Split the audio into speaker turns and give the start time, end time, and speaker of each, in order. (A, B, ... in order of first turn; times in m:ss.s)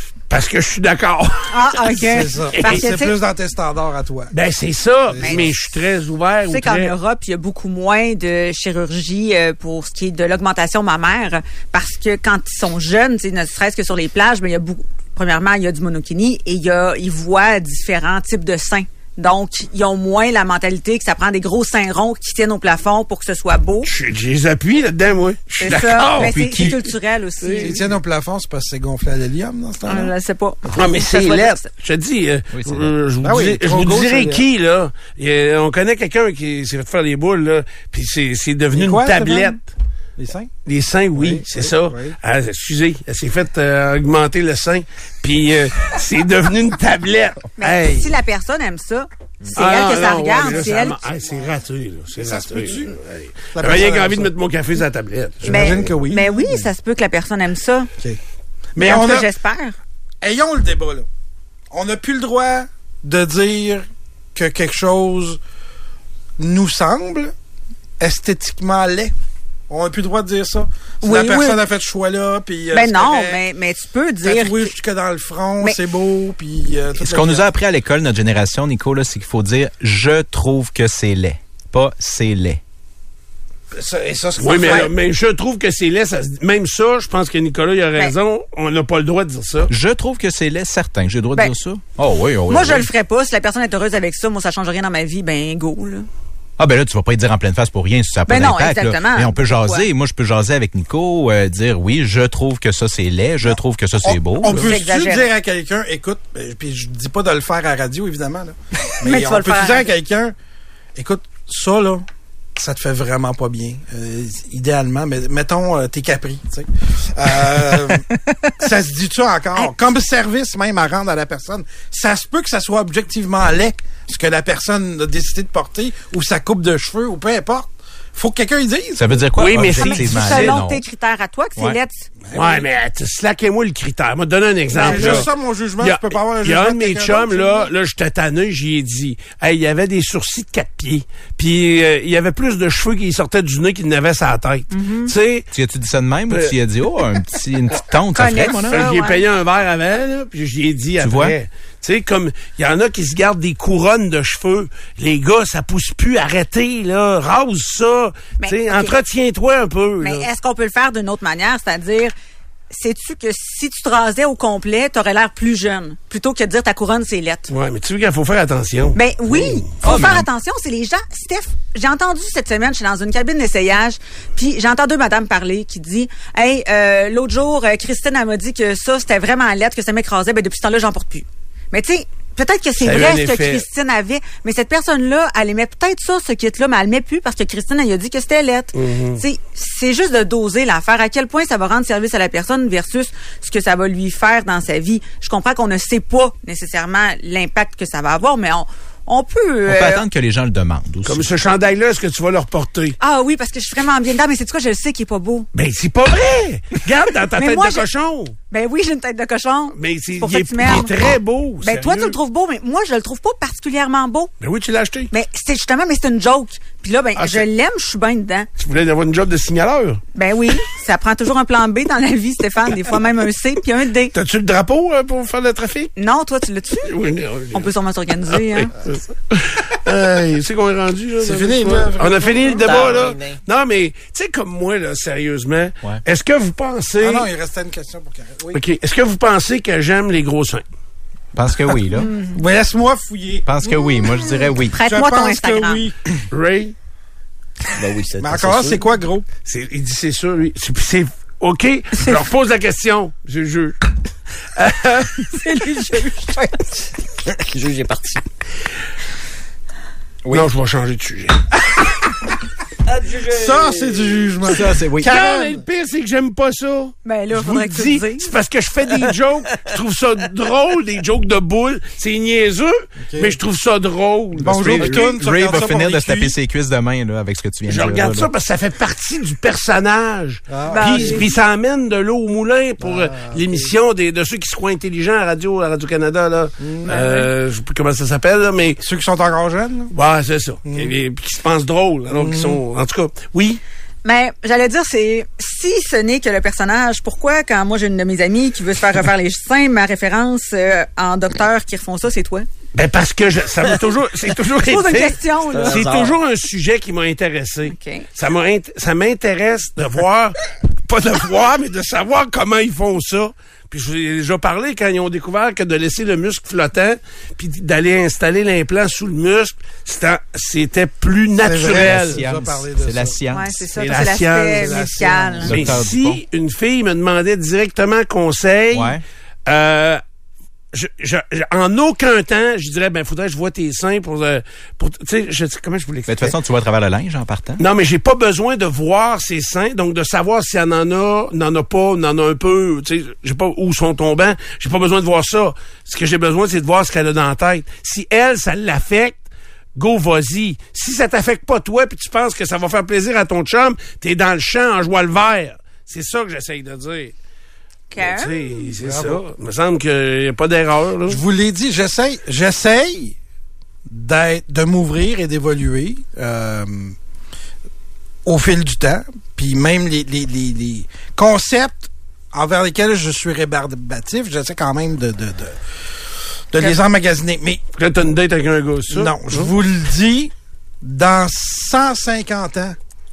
0:00.3-0:02.0 A
0:01.5-0:03.2 B
0:01.9-0:04.3 C
0:02.5-0:02.9 A
0:04.3-0:07.0 A
0:05.1-0:05.5 C
0:05.2-0:05.5 B
0:06.5-0:23.9 B
0:23.8-0:26.3 A
0:25.6-0:27.8 B
0:26.2-0:26.8 D
0:27.4-0:27.8 A
0:27.6-0:30.1 C
0:29.9-0:31.7 B
0:30.7-0:39.7 A
0:32.5-0:32.9 D
0:33.2-0:34.5 C
0:38.7-0:39.6 C
0:40.2-0:40.5 C
0:40.7-0:48.1 A
0:41.1-0:42.2 C
0:47.6-0:51.0 B
0:49.5-0:55.9 A
0:50.5-0:51.3 C
0:52.2-0:53.0 C
0:53.5-0:54.3 C
0:55.4-0:56.7 C
0:55.5-0:57.9 B
0:58.8-0:59.3 C
0:58.8-0:59.8 B
1:00.2-1:01.1 C
1:01.7-1:05.4 C
1:06.4-1:07.3 C
1:08.0-1:09.1 C
1:09.7-1:13.4 C
1:11.0-1:11.6 B
1:12.7-1:14.7 B
1:14.2-1:17.5 C
1:17.0-1:22.6 D
1:23.7-1:24.9 C
1:24.4-1:29.7 A
1:24.6-1:24.9 B
1:29.7-1:32.9 D
1:32.5-1:36.1 B
1:36.6-1:44.7 D
1:38.3-1:39.9 B
1:43.5-1:50.4 C
1:44.6-1:45.3 B
1:49.0-1:49.9 B
1:51.0-1:52.0 C
1:52.6-1:58.1 C
1:58.6-2:09.3 C
2:09.0-2:10.8 D
2:09.4-2:10.6 A
2:09.4-2:12.1 B
2:12.3-2:12.6 C
2:12.3-2:15.3 A
2:14.7-2:15.3 B
2:14.7-2:17.7 C
2:15.8-2:25.5 A
2:24.7-2:25.1 B
2:25.5-2:28.9 D
2:28.1-2:29.3 B
2:28.7-2:40.3 A
2:31.0-2:31.4 D
2:38.4-2:39.0 B
2:40.0-2:42.1 B
2:42.7-2:47.5 B
2:47.5-2:49.7 A
2:49.0-3:20.1 B
2:49.8-2:50.3 D
3:02.8-3:03.6 A
3:08.8-3:09.2 A
3:19.6-3:21.3 D
3:21.0-3:23.0 A
3:23.0-3:25.5 B
3:25.5-3:28.4 A
3:27.4-3:27.9 B
3:28.5-3:34.3 B
3:29.8-3:32.2 A
3:34.4-3:35.1 A
3:35.1-3:38.5 B
3:37.2-3:37.5 A
3:38.6-3:40.0 A
3:40.1-3:44.1 B
3:44.1-3:45.9 A
3:46.0-3:47.0 B
3:46.8-3:47.7 A
3:47.5-3:48.7 B
3:48.4-3:57.3 A
3:51.2-3:52.9 C
3:52.6-3:53.4 E
3:57.0-3:58.6 C
3:58.5-4:00.6 A
4:01.3-4:02.1 D
4:01.9-4:02.4 B
4:02.3-4:03.5 C
4:03.5-4:04.8 D
4:04.7-4:05.8 B
4:04.8-4:06.2 C
4:06.3-4:06.8 A
4:07.8-4:08.8 E
4:08.2-4:09.3 C
4:09.5-4:13.8 A
4:14.6-4:15.3 A
4:15.4-4:16.4 B
4:17.4-4:18.2 E
4:20.2-4:20.5 D
4:20.3-4:21.5 A
4:22.9-4:24.4 E
4:23.3-4:25.6 C
4:24.5-4:25.2 D
4:25.0-4:35.1 A
4:27.0-4:28.3 B
4:33.1-4:33.4 C
4:34.4-4:36.4 C
4:34.4-4:38.3 D
4:37.7-4:48.8 A
4:40.5-4:41.3 C
4:40.7-4:41.3 B
4:42.8-4:43.7 C
4:46.6-4:47.0 C
4:46.9-4:47.3 B
4:48.8-4:49.9 C
4:49.9-4:53.6 A
4:50.7-4:50.9 C
4:52.1-4:52.6 C
4:54.0-5:02.5 B
5:02.8-5:22.2 A
5:04.6-5:05.9 B
5:05.5-5:06.2 E
5:07.7-5:08.0 B
5:21.4-5:23.2 C
5:21.6-5:23.6 D
5:23.3-5:25.5 B
5:23.8-5:30.0 A
5:24.4-5:25.8 C
5:25.4-5:26.2 D
5:28.7-5:29.0 D
5:30.7-5:36.4 A
5:36.1-5:37.6 D
5:37.6-5:49.2 A
5:49.8-5:57.1 A
5:57.9-5:58.5 B
5:58.0-6:01.2 A
5:58.8-5:59.2 C
6:01.1-6:03.2 C
6:03.9-6:07.0 C
6:08.2-6:15.6 C
6:16.5-6:17.6 C
6:17.8-6:19.5 A
6:18.9-6:22.8 C